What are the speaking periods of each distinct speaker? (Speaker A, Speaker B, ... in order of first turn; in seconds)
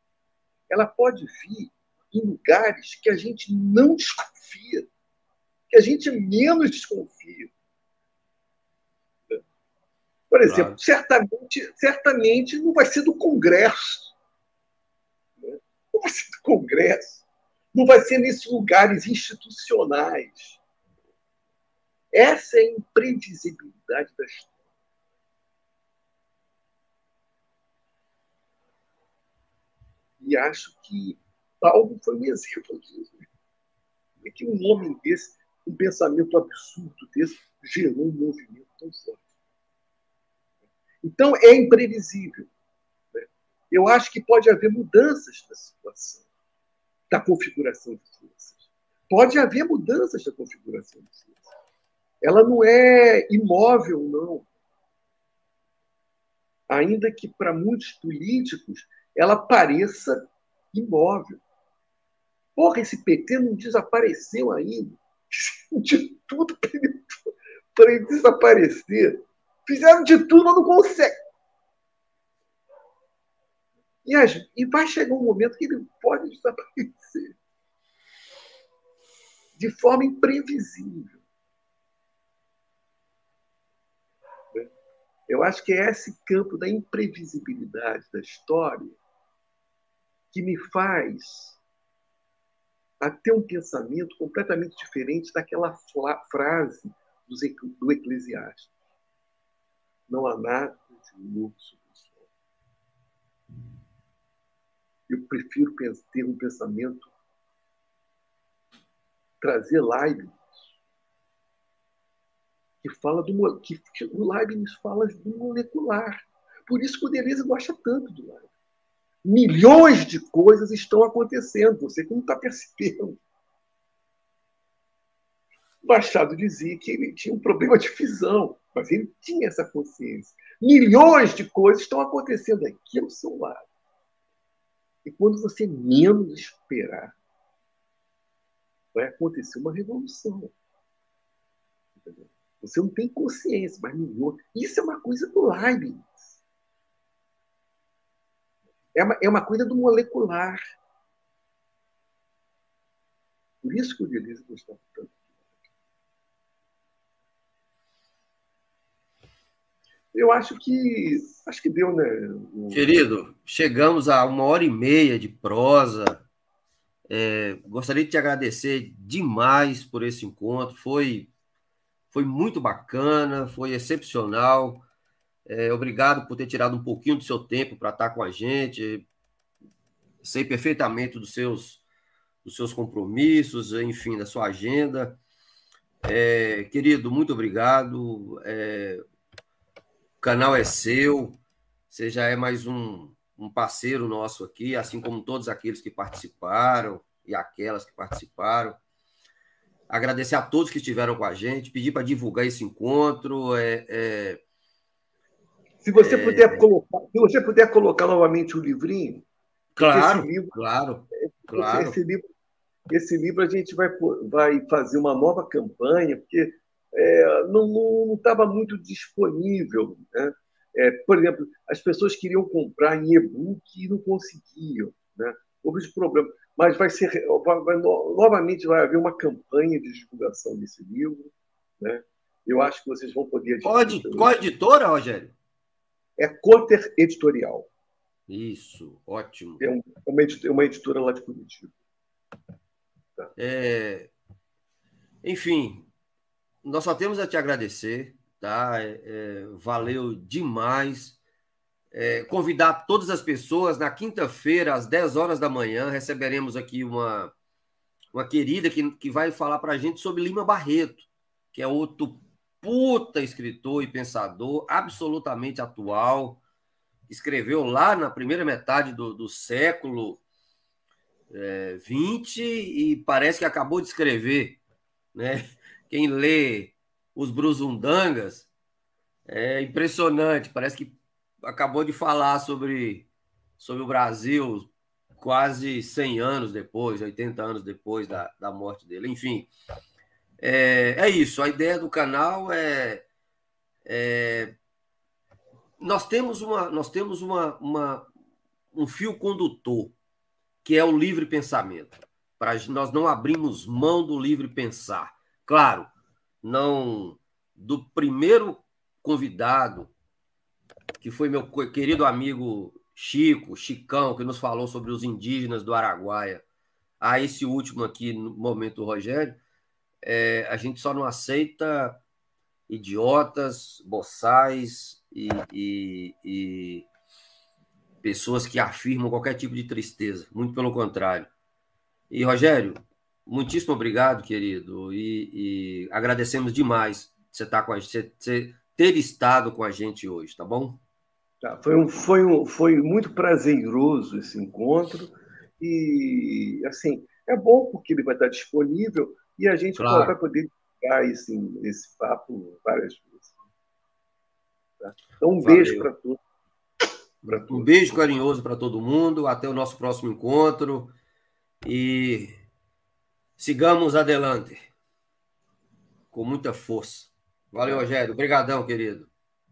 Speaker A: 0.7-4.9, 5.7-7.5, 10.3-14.1, 15.4-20.6, 22.1-24.5, 30.2-33.3, 34.2-39.2, 41.0-42.5, 43.1-46.2, 47.1-51.5, 52.2-54.5, 56.7-61.4, 62.5-71.1, 74.0-77.3, 79.6-81.2, 85.3-89.0, 90.3-91.6, 93.0-98.7, 100.1-102.3, 105.1-107.1, 109.4-110.6, 112.8-118.5, 119.2-123.2, 125.8-133.7, 135.0-137.2, 138.9-140.5, 142.0-146.4, 148.9-150.6, 153.6-155.2, 160.1-163.0, 205.8-209.2, 209.8-210.5, 211.4-212.2, 212.9-234.3, 236.2-237.7, 239.6-241.7, 341.4-353.4, 354.8-356.2, 357.2-358.0, 367.6-367.9
Speaker B: 10.4-10.8, 162.7-166.2, 167.1-171.3, 172.1-174.8, 175.4-179.1, 180.2-181.8, 182.4-185.2, 186.0-189.0, 190.2-191.4, 191.9-198.8, 199.9-204.4, 205.9-206.6, 209.7-212.0, 233.6-235.3, 238.3-239.6, 243.4-244.1, 245.2-245.9, 246.6-251.2, 251.9-257.3, 258.1-266.4, 267.1-270.2, 271.3-274.6, 275.1-278.5, 279.2-283.1, 283.6-289.5, 290.4-293.1, 293.8-294.5, 295.8-298.1, 298.7-299.9, 300.6-305.9, 306.4-309.9, 311.0-316.4, 317.0-319.4, 320.0-322.0, 322.7-326.9, 328.0-331.3, 332.1-340.8, 349.8-350.1, 355.4-355.9, 357.5-360.9, 361.6-362.4, 363.4-364.7, 366.1-369.1